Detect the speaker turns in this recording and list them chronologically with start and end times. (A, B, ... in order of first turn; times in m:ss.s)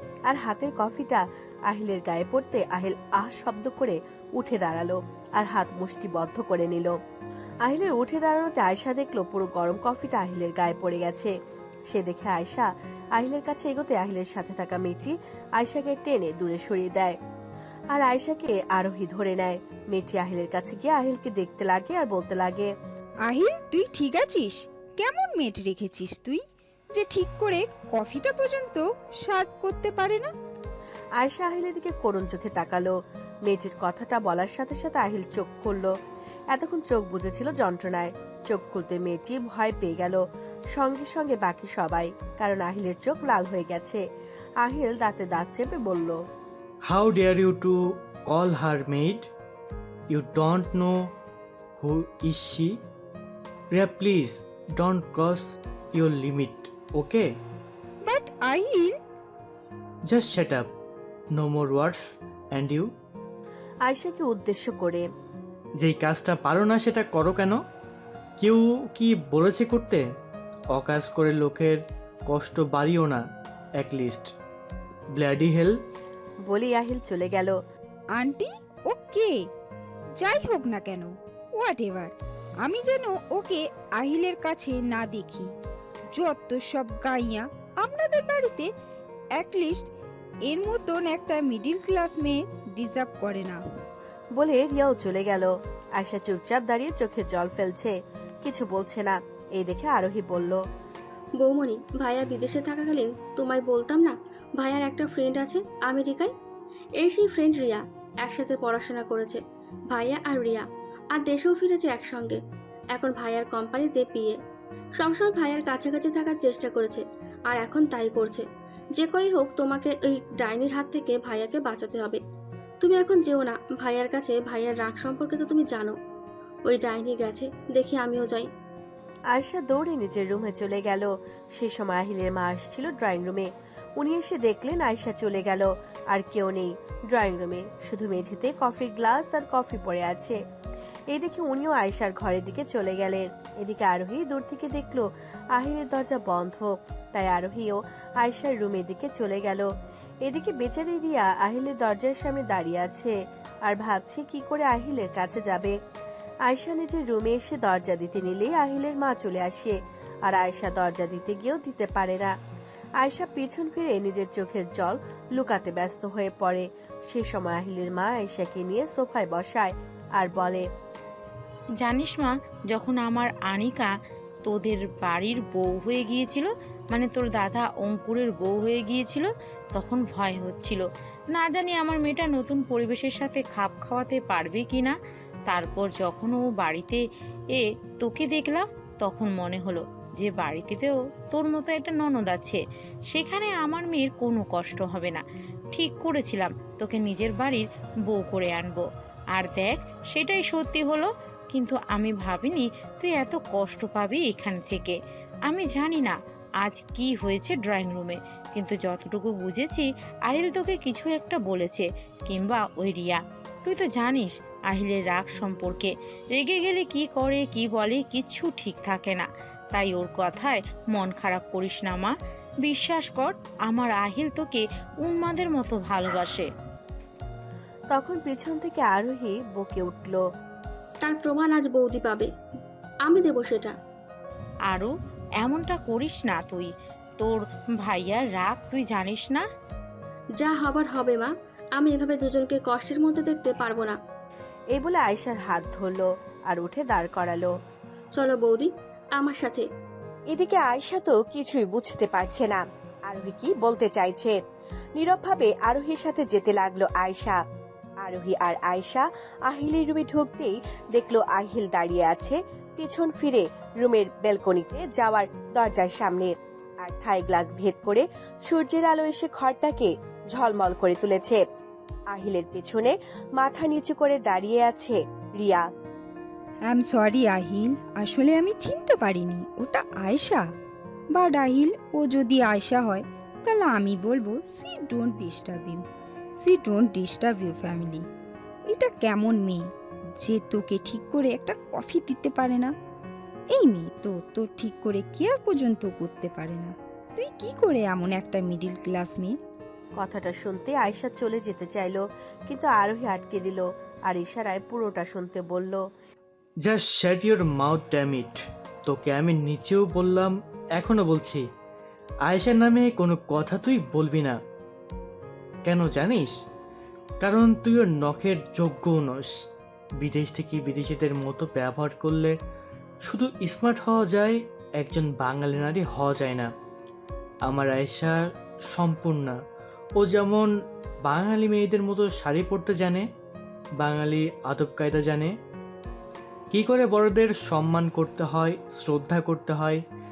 0:00.3-0:06.9 A
0:07.6-0:11.3 A
0:11.9-0:17.2 A
0:17.9-0:22.7 A
0:23.3-0:26.4 B
0:26.9-0:30.3 B
0:31.2-0:32.9 A
0:33.4-0:35.9 A
0:36.5-0:40.2 A
0:40.7-0:44.0 A
0:44.6-0:46.2 A
0:46.9-0:47.8 C
0:48.3-0:49.2 C
0:50.1-0:50.9 C
0:51.8-0:52.7 C
0:53.7-0:57.2 C
0:58.0-0:58.9 B
1:00.1-1:00.7 C
1:01.4-1:02.9 C
1:03.8-1:05.0 A
1:05.8-1:07.6 C
1:08.4-1:10.0 C
1:10.7-1:13.2 C
1:13.8-1:14.3 C
1:15.2-1:15.8 C
1:16.4-1:17.6 A
1:18.2-1:19.3 B
1:20.2-1:25.5 B
1:26.1-1:28.7 B
1:29.4-1:29.8 B
1:30.5-1:33.6 B
1:34.4-1:40.6 A
1:41.4-1:46.3 D
1:47.0-1:52.4 D
1:52.9-1:54.4 D
1:55.0-1:58.4 D
1:59.0-2:02.2 D
2:02.8-2:06.0 D
2:06.7-2:08.5 D
2:09.3-2:20.4 A
2:21.1-2:29.7 A
2:30.2-2:33.1 A
2:33.6-2:35.8 A
2:36.5-2:42.3 A
2:43.0-2:50.7 A
2:51.8-2:53.9 E
2:54.4-3:04.9 E
3:05.5-3:07.0 E
3:07.5-3:46.5 E
3:47.9-3:50.2 A
3:51.0-3:52.3 D
3:53.0-3:53.7 D
3:54.7-3:59.4 E
4:00.4-4:04.0 D
4:04.7-4:07.5 A
4:08.2-4:09.6 D
4:10.3-4:14.4 A
4:15.0-4:17.4 A
4:18.0-4:26.3 A
4:26.8-4:31.4 A
4:32.1-4:35.6 A
4:36.7-4:40.4 B
4:41.1-4:45.8 B
4:46.4-4:48.0 B
4:48.7-4:49.6 B
4:50.2-4:52.7 B
4:53.5-4:59.3 B
5:00.0-5:05.8 A
5:06.6-5:08.3 C
5:08.9-5:11.4 C
5:12.3-5:14.4 C
5:15.6-5:16.3 C
5:17.2-5:19.3 C
5:20.0-5:22.3 C
5:23.1-5:26.5 C
5:27.5-5:28.2 C
5:28.7-5:29.4 C
5:30.0-5:30.5 C
5:31.0-5:33.0 C
5:33.8-5:35.3 C
5:36.5-5:39.8 C